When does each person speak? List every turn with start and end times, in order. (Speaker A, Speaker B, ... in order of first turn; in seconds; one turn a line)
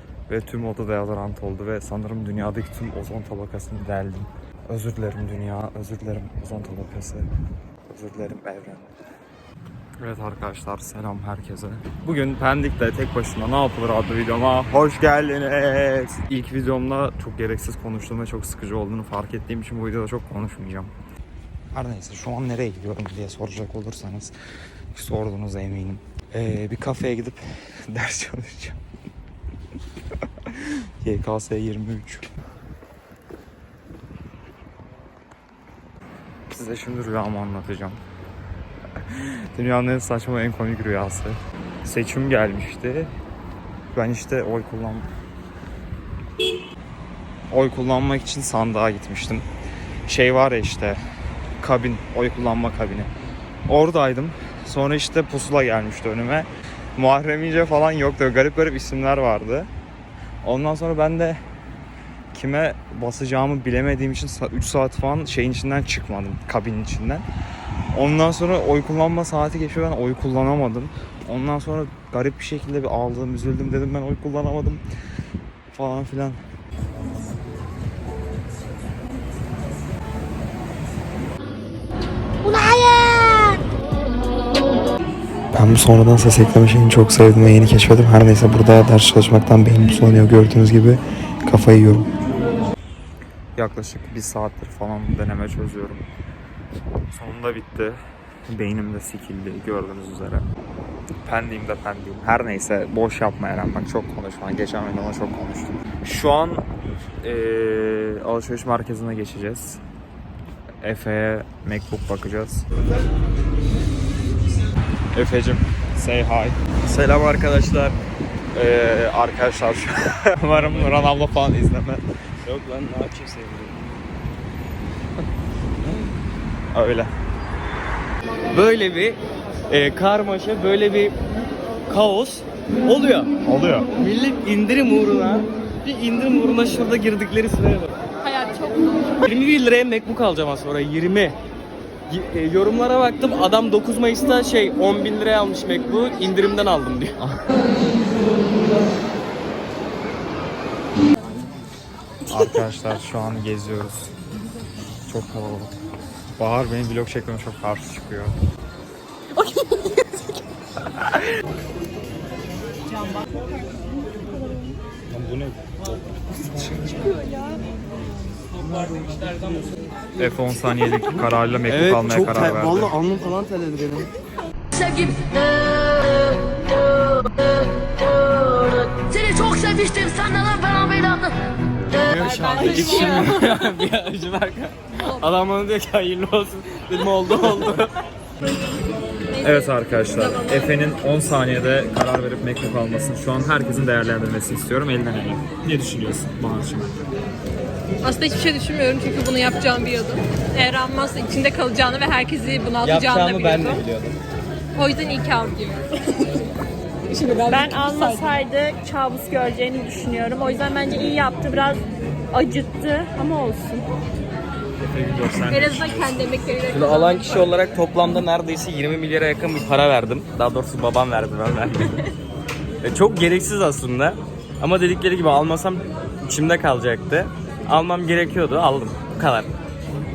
Speaker A: 0.3-7.3
Speaker A: 7.9-8.9
Speaker A: 10.0-20.9
Speaker A: 21.7-24.3
Speaker A: 24.9-28.8
Speaker A: 30.5-32.3
Speaker A: 36.5-38.0
Speaker A: 39.1-43.1
Speaker A: 43.9-45.1
Speaker A: 47.5-49.5
Speaker A: 50.1-51.0
Speaker A: 51.6-53.1
Speaker A: 53.7-59.7
Speaker A: 60.4-61.4
Speaker A: 62.3-67.3
Speaker A: 67.9-74.8
Speaker A: 75.7-76.4
Speaker B: 82.5-83.4
Speaker A: 85.5-92.1
Speaker A: 93.6-96.0
Speaker A: 97.1-100.5
Speaker A: 101.2-106.7
Speaker A: 107.2-109.8
Speaker A: 110.8-112.7
Speaker A: 115.1-116.6
Speaker C: 116.8-118.0
Speaker A: 118.5-122.0
Speaker C: 120.5-121.2
Speaker C: 122.5-123.8
Speaker A: 126.7-127.1
Speaker C: 128.5-129.2
Speaker C: 129.7-131.2
Speaker C: 131.9-133.3
Speaker A: 133.4-133.9
Speaker C: 134.0-137.9
Speaker D: 138.2-139.2
Speaker C: 139.2-141.4
Speaker C: 142.1-147.1
Speaker A: 147.2-147.5
Speaker A: 152.3-154.1
Speaker A: 155.1-155.7
Speaker A: 156.4-158.4
Speaker D: 159.4-159.9
Speaker A: 165.2-165.6
Speaker C: 168.7-169.3
Speaker A: 170.2-173.0
Speaker C: 171.7-174.1
Speaker E: 174.7-176.4
Speaker E: 177.1-177.5
Speaker E: 178.0-181.4
Speaker C: 181.9-187.9
Speaker D: 182.2-183.5
Speaker D: 185.0-185.2
Speaker D: 189.3-190.8
Speaker A: 189.4-196.9
Speaker D: 198.0-203.8
Speaker C: 202.8-204.2
Speaker D: 204.8-205.8
Speaker D: 207.1-208.4
Speaker B: 207.5-213.9
Speaker A: 214.8-216.3
Speaker D: 215.5-217.5
Speaker C: 216.7-222.1
Speaker C: 222.8-229.5